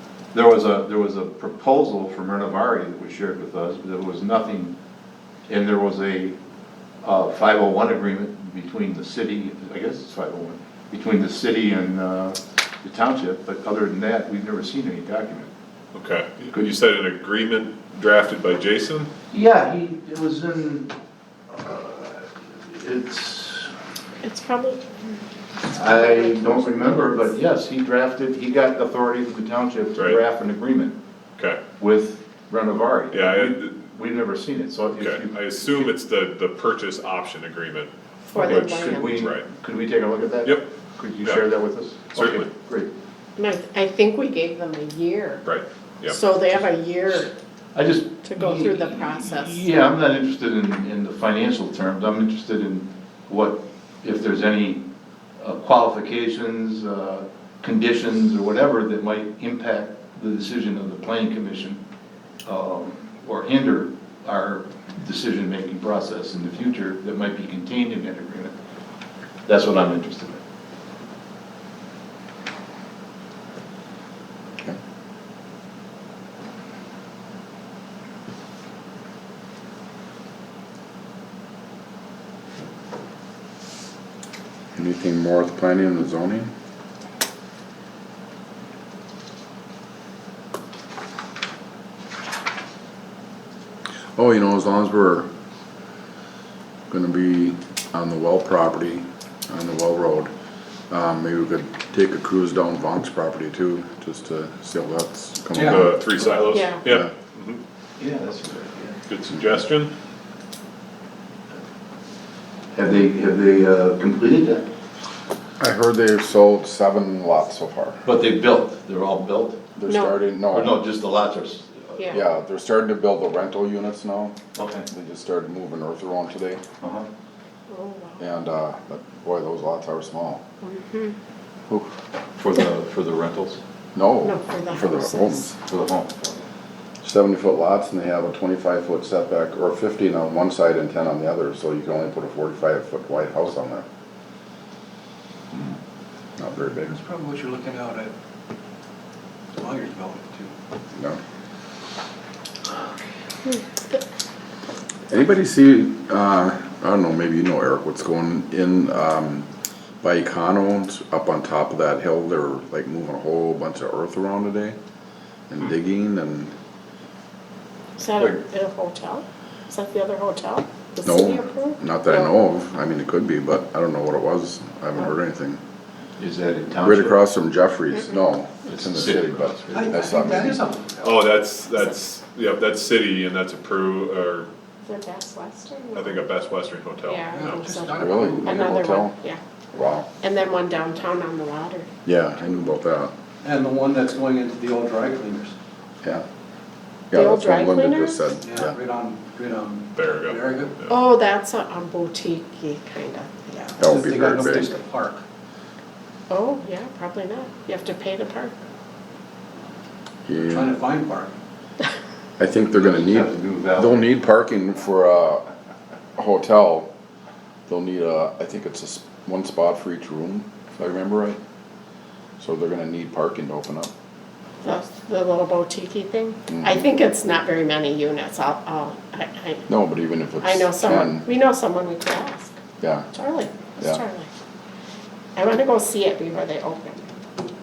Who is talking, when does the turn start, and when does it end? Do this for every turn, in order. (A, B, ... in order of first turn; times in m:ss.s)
0:00.3-0:04.8 A
0:05.5-0:06.4 A
0:07.0-0:15.5 A
0:15.9-0:19.1 B
0:19.3-0:20.9 A
0:21.5-0:23.7 A
0:24.2-0:25.0 C
0:25.6-0:27.4 C
0:25.7-0:31.0 A
0:31.4-0:31.6 B
0:31.8-0:35.9 A
0:33.1-0:33.8 B
0:35.0-0:39.5 B
0:38.2-0:39.2 C
0:38.3-0:42.9 A
0:41.2-0:41.5 B
0:42.1-0:42.5 B
0:43.4-0:45.4 C
0:45.4-0:46.2 B
0:46.0-0:47.3 C
0:47.7-0:54.8 A
0:48.2-0:49.7 C
0:55.4-1:01.8 A
1:02.4-1:08.5 A
1:09.5-1:10.4 A
1:24.8-1:26.5 D
1:34.2-1:35.3 D
1:36.9-1:40.3 D
1:40.9-1:47.1 D
1:45.5-1:45.9 E
1:45.6-1:47.6 B
1:46.5-1:46.8 C
1:48.0-1:49.0 A
1:49.1-1:49.9 B
1:52.7-1:54.7 A
1:55.6-1:58.0 D
1:58.0-1:59.6 A
1:59.8-2:00.8 D
1:59.9-2:00.2 C
2:00.5-2:02.2 A
2:02.0-2:04.4 D
2:04.5-2:04.9 A
2:04.9-2:06.6 D
2:06.8-2:07.1 A
2:07.7-2:08.2 C
2:08.2-2:10.4 D
2:10.6-2:11.2 C
2:12.4-2:13.6 A
2:13.9-2:15.5 D
2:14.2-2:15.5 C
2:15.6-2:16.4 A
2:17.0-2:23.8 D
2:26.4-2:27.0 D
2:26.8-2:28.1 E
2:29.6-2:30.5 E
2:30.9-2:31.2 D
2:35.1-2:39.5 D
2:40.0-2:44.8 D
2:45.5-2:46.5 D
2:48.0-2:52.3 C
2:51.0-2:55.6 D
2:56.2-2:57.2 A
2:56.8-3:00.6 D
2:58.7-3:00.0 A
2:59.7-3:01.2 E
3:01.0-3:04.5 B
3:04.8-3:06.2 C
3:05.9-3:07.6 B
3:07.0-3:09.4 C
3:07.3-3:08.6 E
3:07.9-3:09.2 D
3:09.7-3:10.1 D
3:10.2-3:11.9 C
3:12.0-3:13.1 D
3:13.4-3:15.5 E
3:17.1-3:18.8 D
3:17.1-3:18.3 C
3:18.4-3:20.7 E
3:19.9-3:21.0 B
3:20.9-3:23.9 C
3:23.8-3:24.8 D
3:23.8-3:25.2 E
3:26.3-3:28.5 C
3:30.3-3:30.7 D
3:30.4-3:31.3 E
3:32.4-3:35.4 D
3:32.6-3:34.0 A
3:36.2-3:36.9 D
3:37.7-3:41.4 D
3:42.4-3:43.9 D
3:44.6-3:49.7 C
3:46.5-3:46.8 D
3:49.7-3:51.2 D
3:50.4-3:52.6 C
3:52.8-3:53.1 D
3:53.1-3:54.3 C
3:55.4-3:57.1 C